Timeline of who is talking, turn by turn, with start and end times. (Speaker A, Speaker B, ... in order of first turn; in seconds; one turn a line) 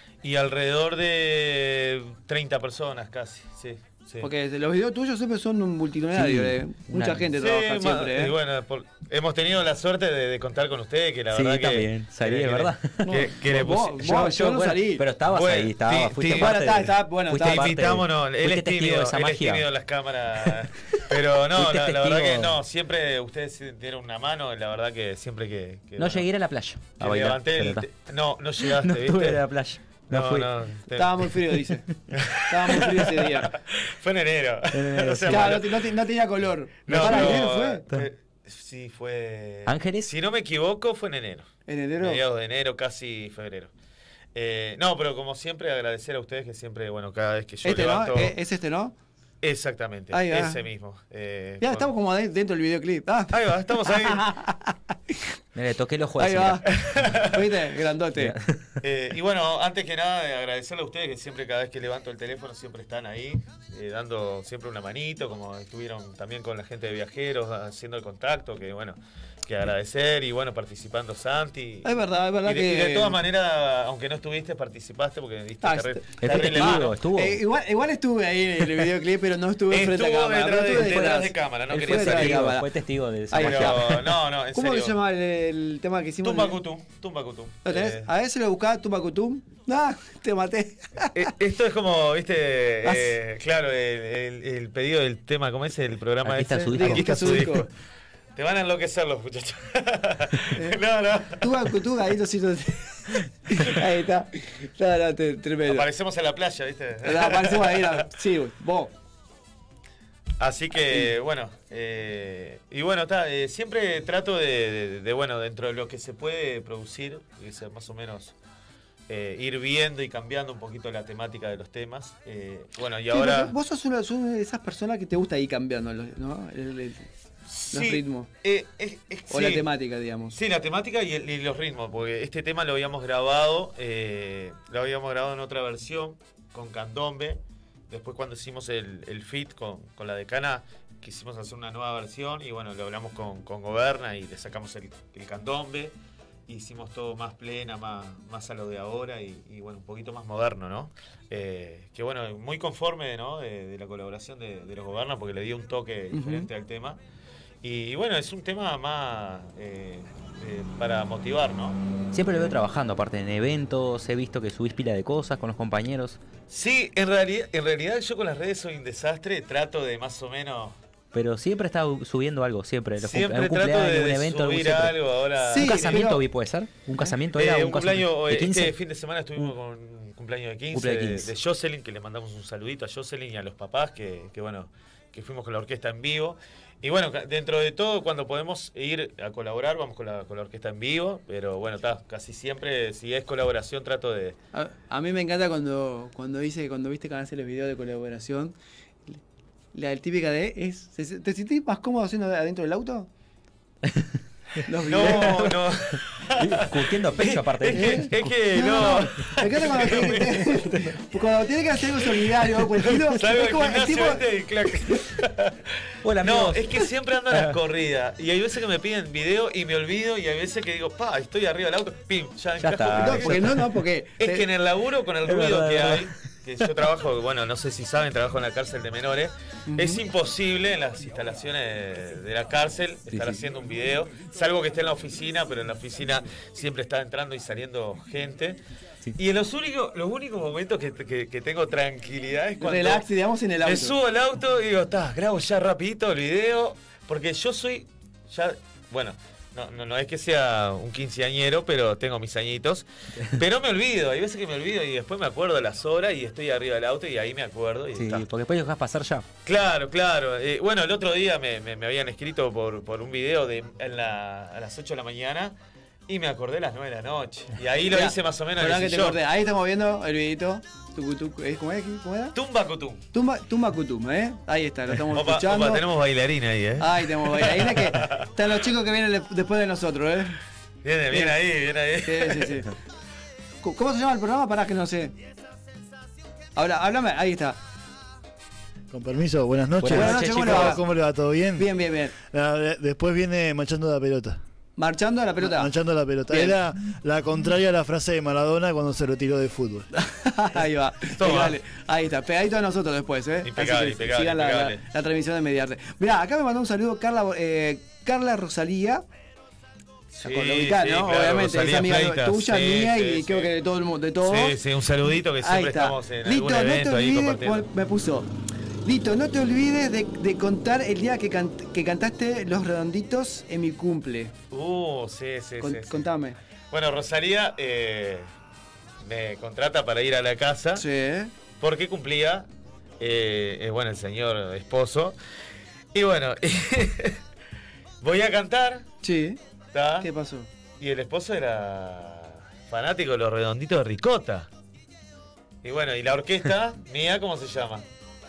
Speaker A: 0.2-4.3
Speaker B: 4.2-8.3
Speaker C: 6.1-7.3
Speaker A: 7.4-14.2
Speaker C: 11.3-13.1
Speaker B: 13.0-15.1
Speaker C: 14.0-19.6
Speaker A: 15.2-26.3
Speaker B: 16.3-17.7
Speaker C: 20.4-21.0
Speaker C: 21.6-22.6
Speaker C: 26.0-27.9
Speaker A: 26.9-29.4
Speaker C: 28.6-30.5
Speaker A: 30.1-31.2
Speaker B: 30.9-31.9
Speaker A: 32.1-35.8
Speaker B: 32.5-33.5
Speaker C: 34.7-35.6
Speaker B: 35.3-37.8
Speaker A: 36.9-43.7
Speaker C: 36.9-38.1
Speaker C: 39.7-40.1
Speaker B: 41.7-42.2
Speaker A: 44.3-48.3
Speaker B: 47.6-48.9
Speaker A: 49.4-51.9
Speaker B: 50.1-50.6
Speaker B: 51.6-54.7
Speaker A: 53.3-54.3
Speaker C: 55.5-56.7
Speaker B: 56.2-58.3
Speaker A: 56.7-57.4
Speaker C: 58.2-58.6
Speaker A: 58.8-77.0
Speaker B: 71.8-73.2
Speaker B: 75.6-82.7
Speaker C: 76.2-77.4
Speaker A: 79.7-82.5
Speaker C: 80.8-81.2
Speaker C: 81.7-84.2
Speaker B: 83.3-84.0
Speaker A: 83.3-85.0
Speaker B: 84.5-86.6
Speaker A: 86.2-88.1
Speaker B: 87.6-91.3
Speaker A: 91.1-97.7
Speaker B: 92.8-93.2
Speaker C: 96.2-97.5
Speaker B: 96.7-97.7
Speaker A: 98.3-101.5
Speaker B: 100.5-100.8
Speaker B: 101.3-105.9
Speaker A: 105.6-108.0
Speaker B: 107.0-108.9
Speaker A: 110.4-118.3
Speaker A: 119.1-123.5
Speaker B: 123.1-127.1
Speaker A: 127.5-129.7
Speaker B: 127.7-128.3
Speaker B: 129.3-130.4
Speaker A: 130.3-145.9
Speaker A: 146.5-157.0
Speaker B: 156.1-156.5
Speaker A: 157.6-161.8
Speaker C: 162.1-166.2
Speaker A: 166.5-170.8
Speaker C: 171.1-174.9
Speaker A: 173.0-176.1
Speaker B: 175.4-176.2
Speaker C: 175.5-178.7
Speaker A: 177.3-194.4
Speaker C: 180.7-181.3
Speaker B: 194.5-198.5
Speaker B: 199.7-203.1
Speaker B: 204.7-205.6
Speaker A: 204.9-210.4
Speaker C: 204.9-205.5
Speaker C: 206.4-210.9
Speaker B: 207.7-214.3
Speaker A: 212.8-215.6
Speaker C: 216.0-217.6
Speaker A: 216.2-223.5
Speaker C: 222.6-223.7
Speaker B: 222.9-224.4
Speaker A: 224.2-238.6
Speaker C: 225.2-226.1
Speaker B: 229.7-230.0
Speaker C: 233.1-233.4
Speaker A: 239.2-243.1
Speaker B: 242.6-244.0
Speaker A: 243.6-258.2
Speaker C: 257.9-259.2
Speaker A: 259.4-265.5
Speaker A: 266.1-269.2
Speaker B: 267.9-272.4
Speaker A: 272.3-273.0
Speaker B: 273.1-275.9
Speaker A: 275.1-278.3
Speaker B: 276.8-280.4
Speaker A: 280.8-282.6
Speaker B: 281.1-281.4
Speaker B: 282.0-282.7
Speaker B: 283.6-285.1
Speaker B: 286.6-287.6
Speaker D: 288.9-291.7
Speaker C: 289.8-290.8
Speaker B: 289.9-290.8
Speaker B: 291.6-292.1
Speaker D: 292.2-294.4
Speaker B: 294.8-295.7
Speaker D: 295.4-299.9
Speaker B: 296.3-296.6
Speaker B: 299.9-309.0
Speaker A: 301.1-301.6
Speaker A: 303.4-304.8
Speaker A: 310.1-313.5
Speaker B: 310.2-314.6
Speaker A: 314.2-317.7
Speaker B: 315.4-318.3
Speaker B: 318.8-324.3
Speaker A: 324.5-326.1
Speaker B: 325.6-326.4
Speaker A: 326.7-328.3
Speaker A: 329.0-330.9
Speaker B: 330.8-331.3
Speaker A: 331.6-332.5
Speaker A: 333.0-335.1
Speaker A: 335.9-337.2
Speaker A: 338.0-338.9
Speaker B: 339.0-339.4
Speaker A: 339.7-340.1
Speaker B: 340.0-340.5
Speaker A: 340.8-344.5
Speaker A: 345.6-347.8